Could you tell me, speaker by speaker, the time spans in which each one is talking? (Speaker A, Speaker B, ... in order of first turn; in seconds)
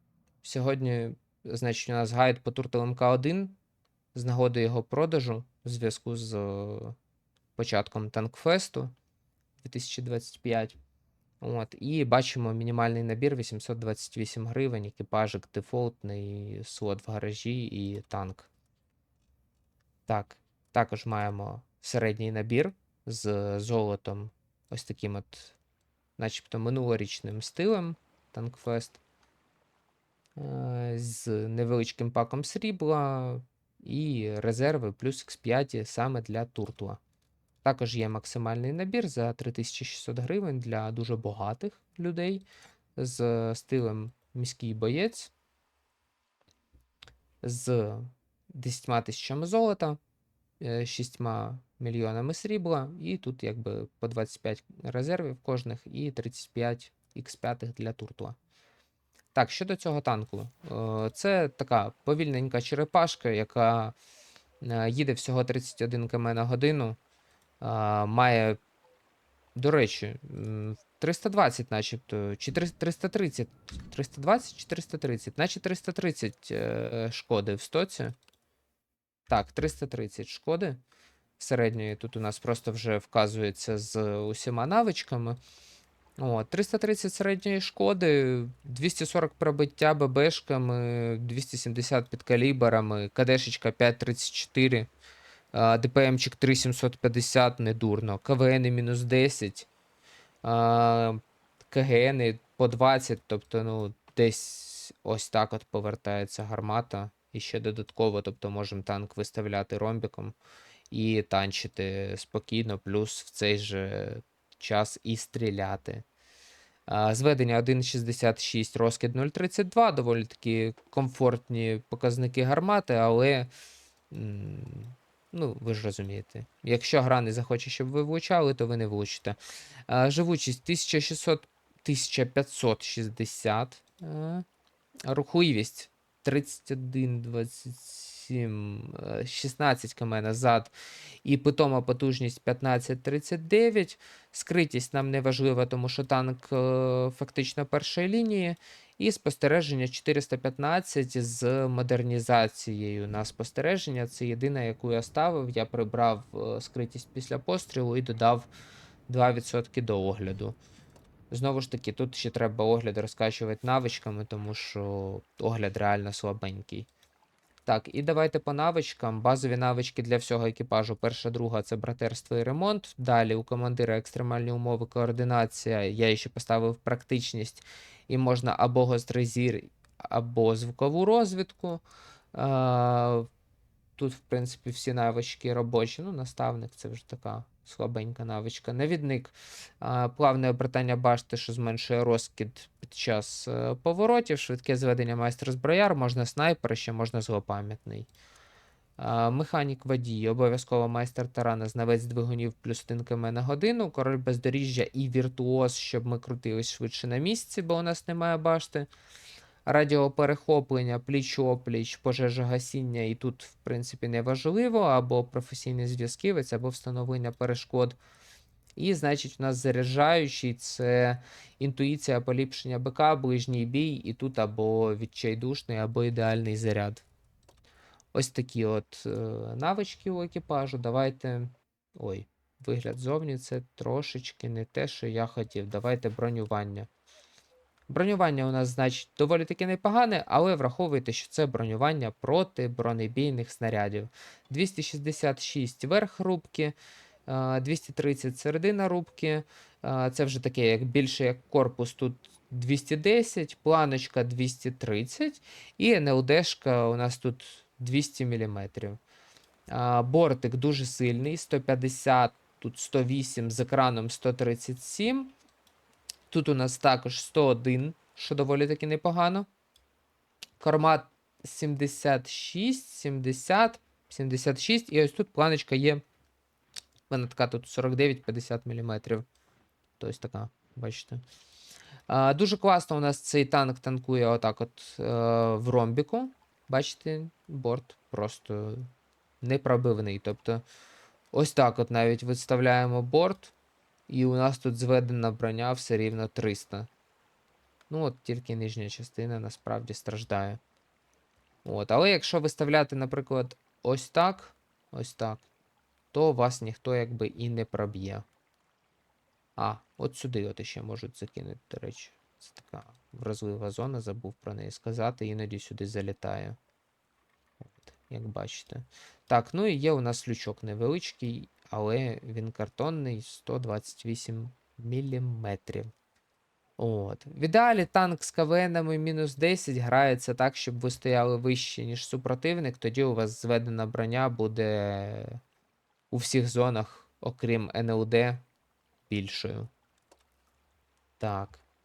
Speaker A: 0.4-3.6, 4.1-7.0, 7.5-8.9, 9.6-10.8, 11.4-18.5, 20.1-25.6, 26.2-29.0, 30.4-37.0, 37.6-42.4, 43.0-45.3, 47.4-50.0, 50.6-58.4, 59.3-64.0, 64.6-67.0, 67.6-68.6, 69.5-78.1, 79.3-80.8, 81.4-85.4, 86.2-94.9, 95.5-99.7, 100.4-110.3, 110.9-116.0, 116.9-123.5, 124.1-134.4, 135.1-140.7, 141.2-158.5, 159.1-160.6, 161.3-166.9, 167.7-181.8, 182.3-183.3, 184.0-198.1, 199.0-208.9, 209.7-218.0, 218.8-227.0, 228.1-236.9, 237.9-246.7, 247.3-259.0, 259.7-265.3, 266.3-269.5, 270.6-276.0, 277.1-279.2, 280.0-281.2, 282.1-288.9, 289.4-290.6, 291.3-293.5, 294.1-296.9, 297.9-300.6, 301.6-305.4, 306.1-308.2, 309.6-316.6, 317.7-325.9, 326.8-335.4, 336.1-338.4, 339.1-339.7, 341.2-341.6